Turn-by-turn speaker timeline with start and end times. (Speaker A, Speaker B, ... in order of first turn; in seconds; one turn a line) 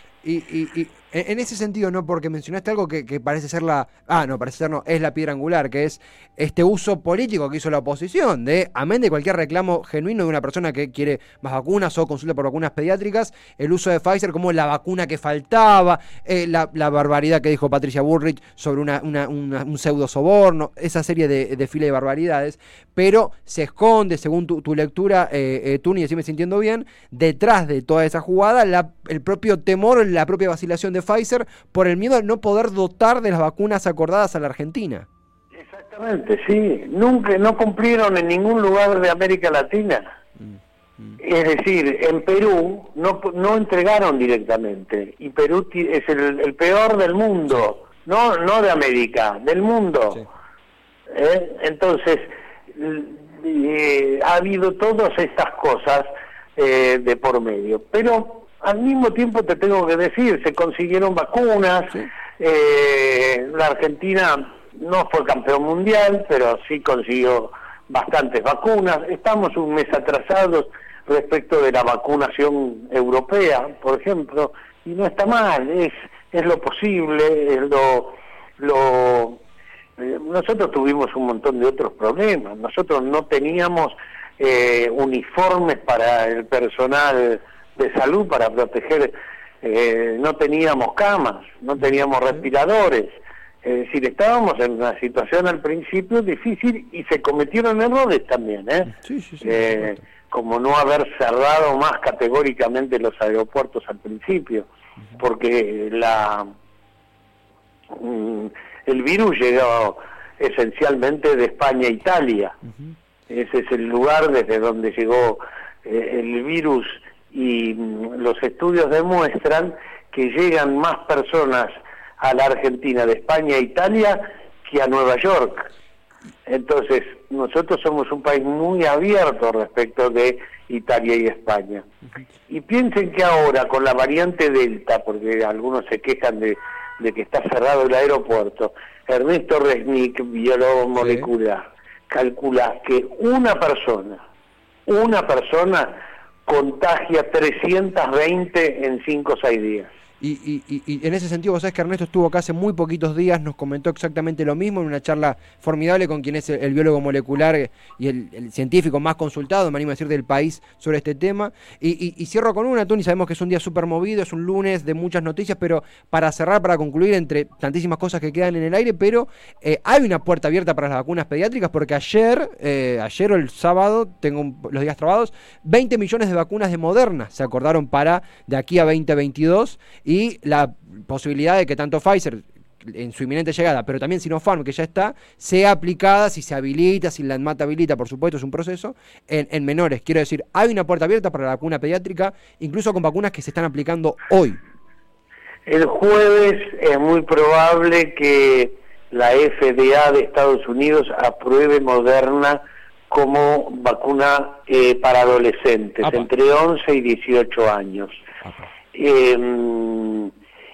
Speaker A: 0.2-35.1
Speaker B: 35.6-40.2
Speaker A: 40.4-41.2
Speaker B: 41.2-50.2
Speaker B: 51.1-56.0
Speaker B: 56.6-79.4
Speaker B: 80.0-89.1
Speaker B: 89.6-98.9
Speaker A: 98.9-100.0
Speaker B: 99.4-106.5
Speaker B: 107.9-112.6
Speaker B: 113.3-125.7
Speaker B: 126.5-131.8
Speaker B: 132.5-144.2
Speaker A: 140.9-141.3
Speaker B: 144.9-149.9
Speaker A: 150.2-194.6
Speaker B: 195.7-208.2
Speaker A: 206.0-206.3
Speaker B: 208.9-210.3